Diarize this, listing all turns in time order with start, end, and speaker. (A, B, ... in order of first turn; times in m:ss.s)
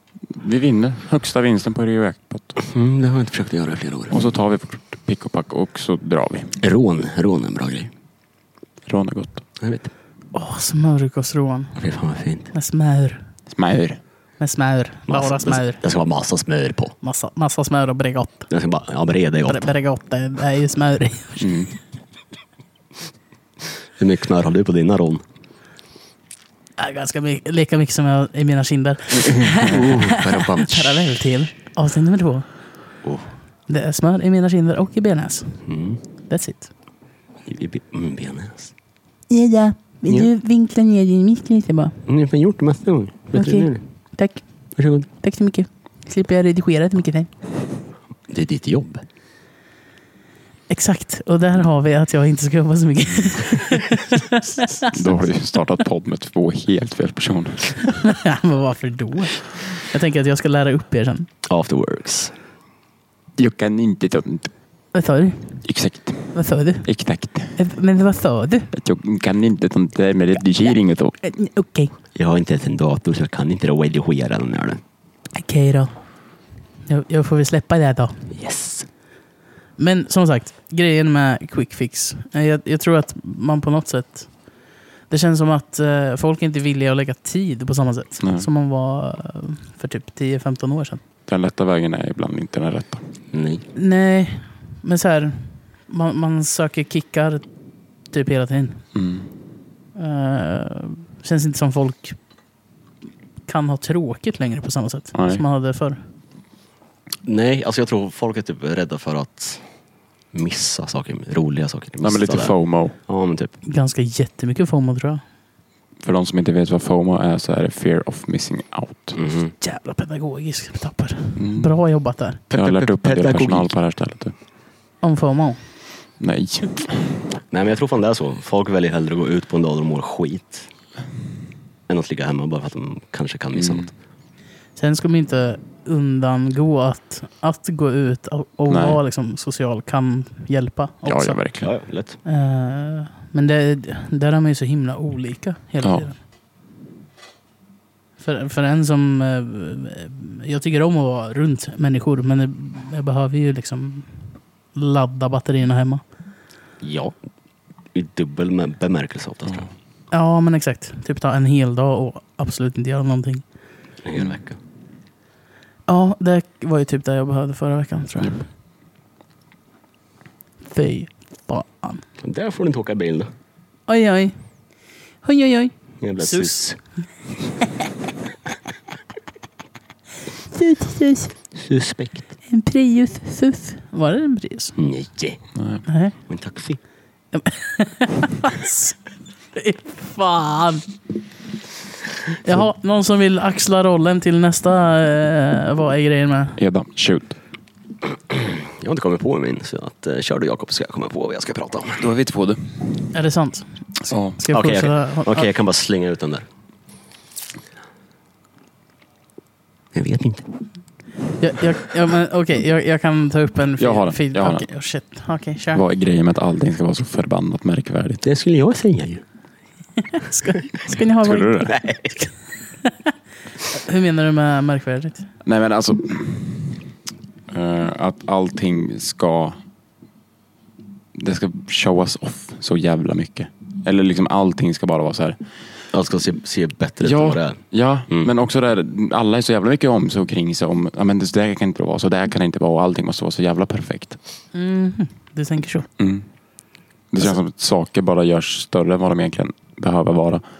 0:00.3-0:02.6 A
0:02.6-0:04.2 B
0:04.1-0:06.5 A
0:06.6-0:07.9 B
0:08.9-0:09.4 A
0:09.6-0:09.9 B
0:10.3-0:11.8 C
0:11.8-0:12.5 B
0:12.5-0:13.2 C
0:13.5-0:14.0 A
0:14.4-0:15.8 C
0:15.1-0:16.9 B
0:17.0-0:18.5 C
0:18.5-0:19.7 B
0:19.5-0:21.6 C
0:21.4-0:21.7 A
0:24.0-0:25.2 B
0:26.8-0:32.5 C
0:29.5-0:31.0 B
0:33.7-0:35.7 C
0:35.7-0:36.0 B
0:36.3-0:36.7 C
0:37.4-0:38.7 B
0:39.3-0:42.0 C
0:42.1-0:43.8 B
0:43.3-0:44.5 C
0:44.8-0:45.1 B
0:45.1-0:47.3 C
0:48.3-0:49.0 B
0:50.7-0:54.9 C
0:54.8-0:58.0 A
0:58.0-1:01.3 C
1:01.5-1:02.3 B
1:03.4-1:04.5 A
1:04.9-1:05.6 C
1:05.6-1:07.6 A
1:06.3-1:06.9 C
1:07.6-1:08.7 C
1:08.7-1:11.2 A
1:11.2-1:11.9 C
1:12.1-1:14.8 B
1:15.4-1:16.0 C
1:16.9-1:18.3 C
1:18.3-1:18.9 B
1:19.8-1:24.3 C
1:25.1-1:31.0 C
1:28.2-1:28.5 A
1:31.3-1:33.0 A
1:33.3-1:33.6 B
1:33.8-1:37.5 C
1:38.1-1:38.8 C
1:38.9-1:39.3 A
1:40.0-1:42.2 C
1:43.5-1:46.0 C
1:45.1-1:45.4 A
1:47.3-1:49.6 B
1:50.3-1:52.6 B
1:52.0-1:53.0 A
1:53.1-1:53.5 B
1:53.6-1:55.2 C
1:56.0-1:59.2 A
1:59.2-1:59.5 B
1:59.6-2:02.4 C
2:01.4-2:01.7 A
2:02.5-2:03.7 B
2:02.5-2:04.3 A
2:05.0-2:05.6 C
2:06.2-2:07.2 A
2:07.5-2:10.7 B
2:11.9-2:13.9 B
2:13.6-2:13.9 A
2:14.8-2:21.4 C
2:18.7-2:19.0 A
2:21.1-2:21.7 A
2:21.6-2:22.2 B
2:22.2-2:26.2 C
2:25.8-2:26.1 A
2:28.2-2:34.1 C
2:34.8-2:36.0 C
2:36.8-2:37.2 B
2:37.9-2:39.7 B
2:40.1-2:43.4 C
2:44.0-2:44.6 B
2:45.9-2:48.5 C
2:50.7-2:52.0 C
2:52.2-2:53.3 B
2:53.9-2:54.4 C
2:55.2-2:56.6 C
2:56.0-2:56.8 B
3:00.5-3:01.4 C
3:01.6-3:02.2 B
3:02.5-3:04.8 C
3:04.8-3:05.4 B
3:05.6-3:05.8 A
3:05.9-3:06.1 C
3:06.3-3:06.8 B
3:07.3-3:09.0 C
3:09.5-3:10.9 C
3:12.4-3:16.6 C
3:16.6-3:17.4 A
3:18.1-3:22.1 B
3:22.0-3:22.6 A
3:23.1-3:25.5 C
3:24.1-3:24.4 A
3:24.5-3:26.5 B
3:29.9-3:30.5 B
3:31.4-3:35.8 C
3:33.8-3:34.7 A
3:35.7-3:38.2 A
3:38.2-3:39.2 B
3:40.0-3:42.3 C
3:41.2-3:41.7 A
3:41.7-3:42.2 B
3:43.7-3:45.3 C
3:45.4-3:46.8 A
3:47.5-3:49.6 A
3:51.1-3:55.4 A
3:55.9-3:58.3 B
3:57.0-4:04.2 A
4:04.5-4:05.9 C
4:06.0-4:06.3 A
4:07.1-4:10.4 A